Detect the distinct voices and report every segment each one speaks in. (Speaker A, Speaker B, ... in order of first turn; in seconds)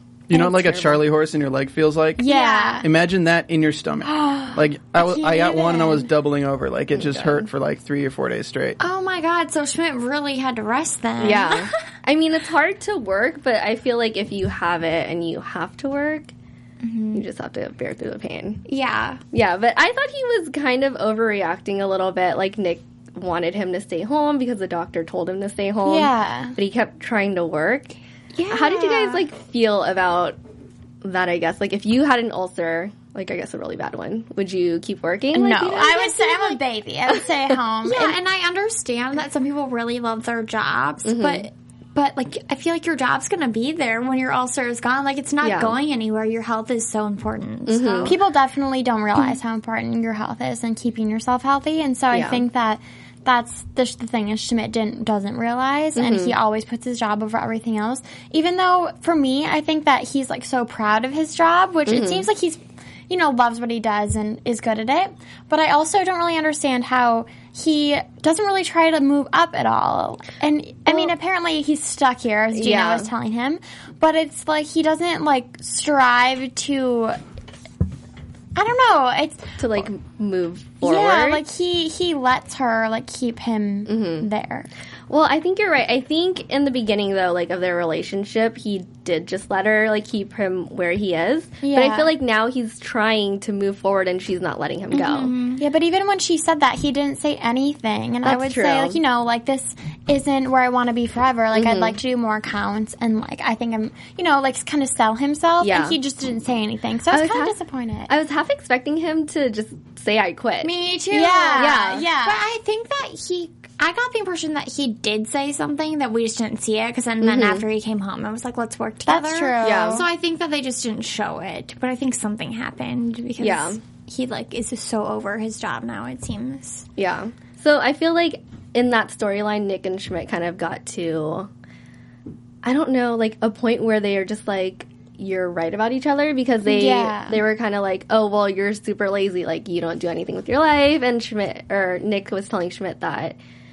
Speaker A: 0.3-8.8
Speaker B: 0.3-1.1, 6.9-7.5, 11.2-16.3, 17.1-18.6, 19.3-28.0, 28.5-30.4, 31.0-36.6, 41.0-41.5, 45.4-45.8, 47.7-48.2, 52.1-52.5, 56.0-56.4, 61.9-62.3, 72.5-73.1, 79.6-81.5, 83.9-84.3, 85.1-95.3, 98.2-99.0, 101.5-102.0, 105.6-106.0, 107.1-107.6, 108.1-110.7, 111.6-112.1, 117.2-117.7, 119.6-120.1, 123.4-123.8, 127.0-131.5, 132.6-143.4
Speaker C: 2.2-2.9, 4.0-6.1, 25.8-26.6, 35.3-38.2, 48.0-77.2, 78.6-79.9, 80.8-84.7, 91.6-92.2, 95.6-108.1, 111.1-112.4, 119.1-120.1, 136.7-137.4
Speaker D: 2.3-2.8, 8.8-11.7, 16.8-17.2, 18.7-19.2, 28.4-29.2, 37.8-48.2, 94.9-95.7, 110.6-126.9